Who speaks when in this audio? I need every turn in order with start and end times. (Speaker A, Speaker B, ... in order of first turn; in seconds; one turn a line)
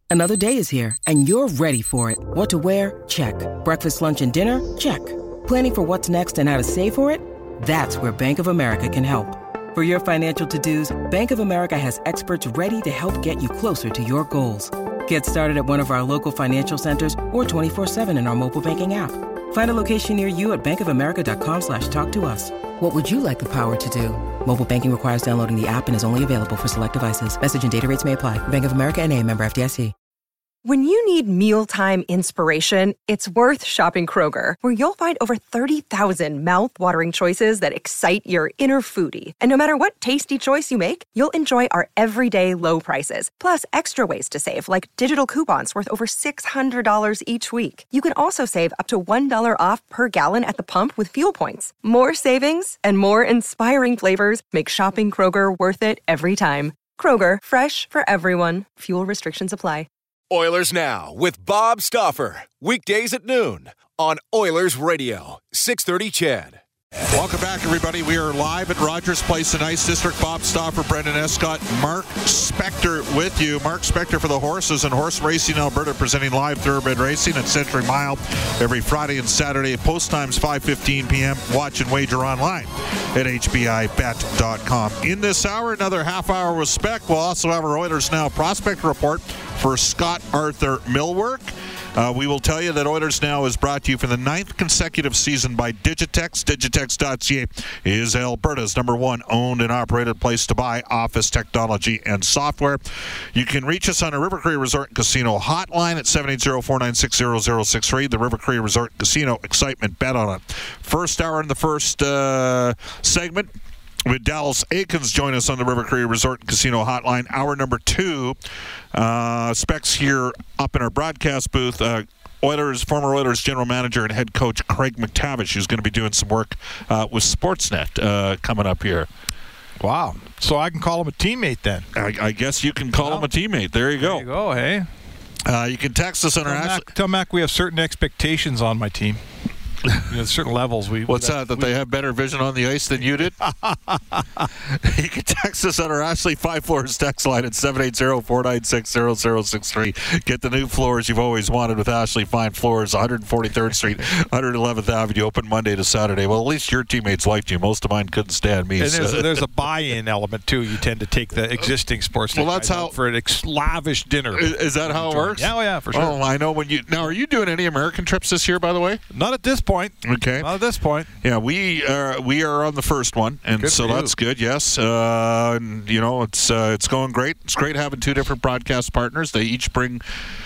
Speaker A: 0.1-29.9
Speaker B: 30.6-59.9
Speaker C: 60.3-67.1
Speaker D: 67.1-113.5
Speaker D: 114.0-118.4
Speaker D: 118.9-129.1
Speaker E: 129.8-131.9
Speaker D: 131.9-134.3
Speaker E: 133.0-133.3
Speaker E: 134.0-134.9
Speaker D: 135.4-136.9
Speaker E: 136.4-139.2
Speaker E: 139.9-141.7
Speaker D: 141.1-143.4
Speaker E: 143.4-144.3
Speaker D: 144.6-159.5
Speaker E: 158.8-166.2
Speaker D: 162.3-162.9
Speaker D: 164.3-169.0
Speaker E: 169.1-171.1
Speaker D: 170.0-170.5
Speaker D: 171.2-180.0
Speaker E: 173.5-174.1